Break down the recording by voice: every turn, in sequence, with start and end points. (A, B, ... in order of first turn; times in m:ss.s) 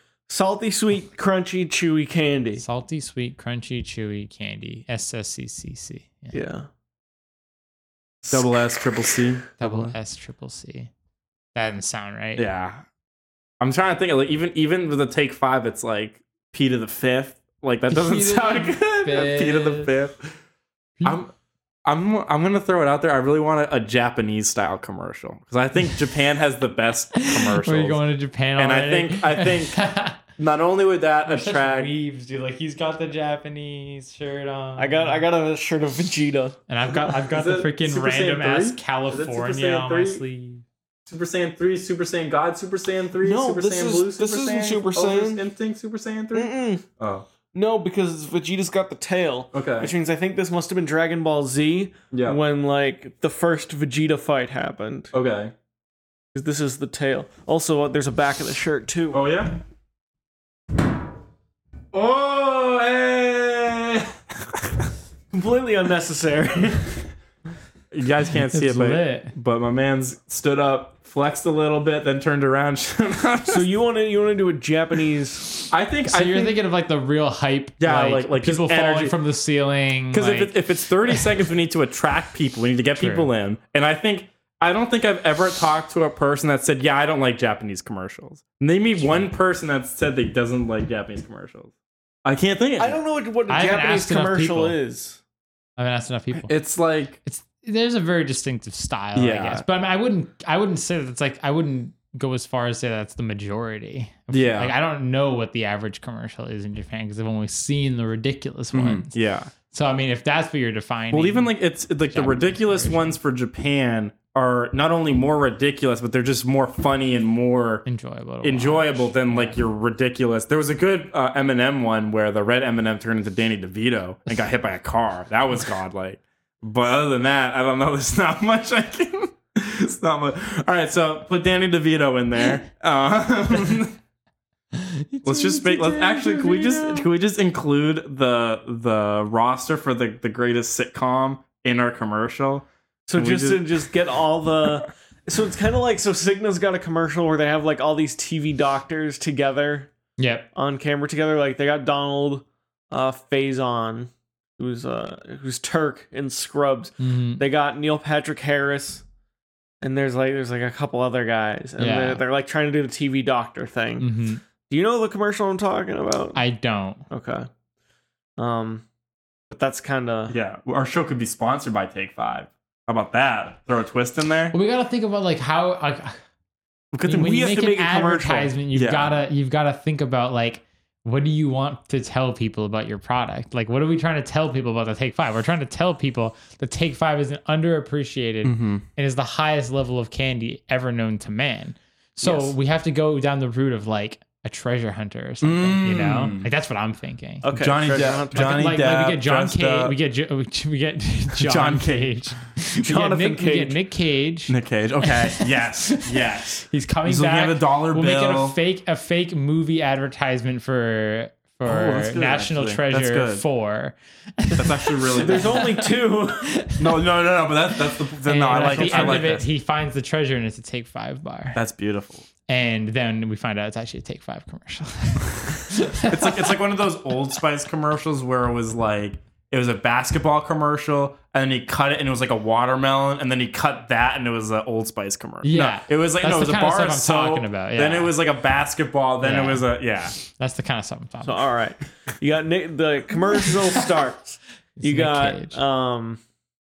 0:00.3-0:02.6 A
0:02.6-0:06.4 B
0:06.3-0:06.7 A
0:08.3-0:09.9 C
0:09.6-0:10.9 B
0:11.5-0:12.4 B
0:12.4-0:12.8 C
0:13.6-0:20.3 C
0:17.9-0:19.9 B
0:21.0-0:21.3 C
0:21.8-0:28.0 C
0:27.2-0:30.2 B
0:28.6-0:31.9 C
0:31.3-0:35.2 B
0:34.8-0:37.1 A
0:36.7-0:40.6 B
0:37.3-0:40.2 C
0:41.1-0:47.2 C
0:43.2-0:45.4 A
0:46.3-0:46.8 A
0:47.5-0:55.1 A
0:49.5-0:49.9 C
0:52.1-0:52.4 C
0:55.1-0:55.5 C
0:56.3-0:59.2 A
0:59.1-0:59.6 C
1:01.9-1:04.9 C
1:05.3-1:07.0 A
1:07.9-1:13.7 C
1:08.5-1:09.3 B
1:13.5-1:15.5 A
1:15.7-1:16.5 C
1:16.0-1:20.5 B
1:17.8-1:19.1 C
1:20.1-1:31.7 C
1:23.0-1:23.3 B
1:32.2-1:33.0 C
1:32.8-1:35.2 A
1:33.5-1:34.8 B
1:35.8-1:36.5 B
1:36.5-1:37.2 C
1:37.2-1:49.1 B
1:39.1-1:39.6 C
1:44.3-1:44.7 C
1:48.7-1:49.5 C
1:49.7-1:51.5 B
1:51.1-1:57.8 C
1:52.1-1:53.2 B
1:57.8-1:59.6 B
1:58.4-2:13.9 C
2:14.7-2:17.1 B
2:15.2-2:23.8 C
2:23.1-2:29.9 A
2:30.2-2:30.5 B
2:30.5-2:39.0 A
2:37.0-2:37.4 B
2:39.8-2:44.1 A
2:41.8-2:42.2 B
2:44.0-2:44.4 B
2:44.7-2:46.4 A
2:46.3-2:47.0 B
2:47.1-2:47.5 A
2:48.4-2:48.8 A
2:49.5-2:50.3 A
2:50.3-2:54.5 C
2:54.5-2:56.2 B
2:56.9-2:57.4 C
2:57.0-3:17.5 B
2:57.1-2:58.5 A
2:58.7-2:59.2 C
3:08.4-3:08.8 C
3:12.2-3:12.5 A
3:15.4-3:16.5 C
3:17.4-3:18.7 A
3:17.5-3:19.9 C
3:18.3-3:37.0 B
3:21.4-3:22.2 C
3:22.8-3:23.8 A
3:24.5-3:28.6 C
3:31.6-3:33.4 C
3:34.6-3:35.7 C
3:35.2-3:36.5 A
3:36.8-3:39.5 C
3:38.2-3:41.6 B
3:38.5-3:39.4 A
3:41.5-3:42.2 C
3:42.5-3:46.6 B
3:46.1-4:00.1 C
3:55.4-3:58.1 B
3:59.2-4:01.5 B
4:01.2-4:06.2 A
4:04.8-4:05.6 B